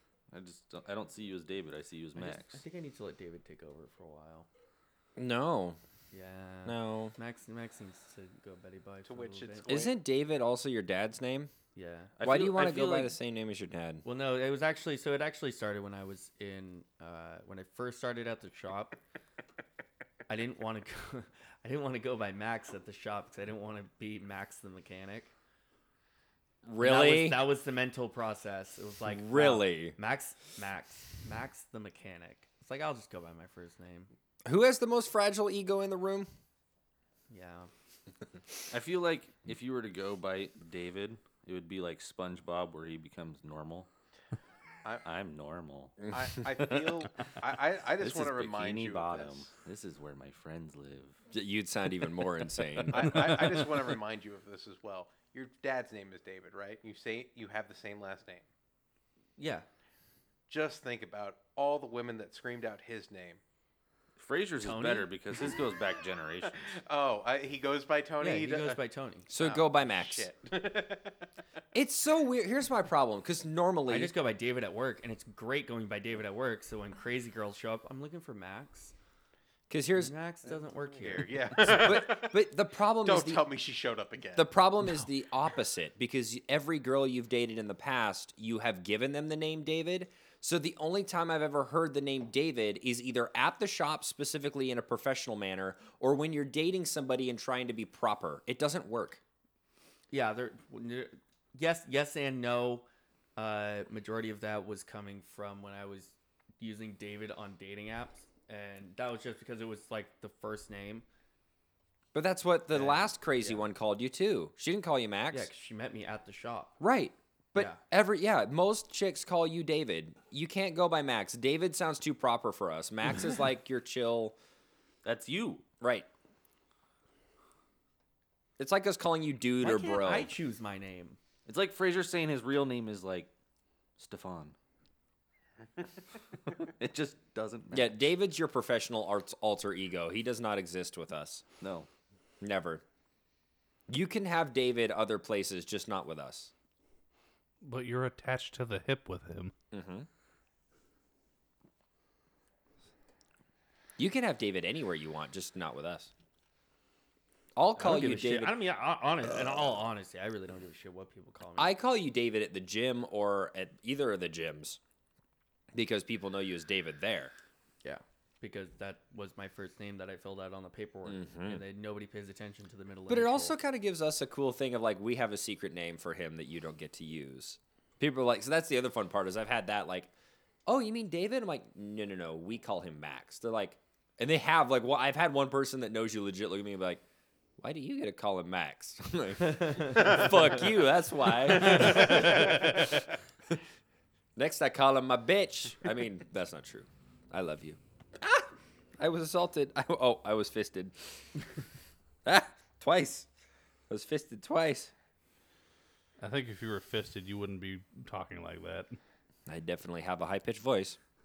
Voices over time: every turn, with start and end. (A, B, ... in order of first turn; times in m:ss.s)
0:00.3-0:02.6 A
0:02.2-0:04.5 B
0:05.2-0:05.8 C
0:06.1-0:09.9 B
0:06.6-0:07.1 C
0:09.0-0:09.9 D
0:09.7-0:11.5 C
0:11.8-0:12.1 B
0:12.2-0:13.2 A
0:12.2-0:14.0 C
0:14.0-0:19.0 B
0:20.3-0:25.3 B
0:26.6-0:27.4 C
0:26.8-0:34.1 B
0:29.1-0:30.0 C
0:34.5-0:36.3 C
0:37.3-0:37.7 B
0:38.7-0:43.9 A
0:45.0-0:47.3 A
0:46.1-0:49.4 D
0:48.0-0:51.2 A
0:51.3-0:53.6 C
0:52.9-0:58.4 D
0:59.4-0:59.7 B
1:00.5-1:03.4 D
1:04.2-1:06.8 A
1:04.6-1:05.1 B
1:06.8-1:08.8 D
1:08.2-1:09.6 B
1:09.3-1:10.3 C
1:09.8-1:11.2 D
1:11.7-1:14.1 C
1:13.9-1:18.9 B
1:19.7-1:20.1 C
1:20.0-1:21.6 B
1:20.5-1:22.4 D
1:21.6-1:23.4 C
1:23.0-1:24.5 D
1:24.4-1:39.2 C
1:40.1-1:51.0 B
1:52.1-1:55.5 C
1:52.7-1:53.6 B
1:55.3-1:56.8 B
1:56.8-2:04.4 C
2:05.0-2:05.6 A
2:05.8-2:06.1 C
2:08.6-2:10.3 C
2:09.6-2:11.2 B
2:11.5-2:13.3 A
2:14.0-2:14.6 A
2:16.5-2:18.1 A
2:17.7-2:21.4 C
2:21.6-2:21.9 A
2:22.4-2:22.8 C
2:23.9-2:26.5 C
2:27.6-2:29.5 E
2:29.7-2:30.1 C
2:34.0-2:36.1 C
2:37.6-2:38.6 C
2:37.8-2:41.8 B
2:41.6-2:44.8 C
2:45.7-2:47.3 C
2:47.8-2:53.6 B
2:51.1-2:51.6 C
2:53.1-3:00.1 C
3:00.7-3:07.0 C
3:07.6-3:13.0 C
3:09.6-3:10.0 B
3:14.4-3:21.0 C
3:22.2-3:23.3 C
3:23.9-3:24.9 C
3:26.2-3:29.0 E
3:29.5-3:31.0 C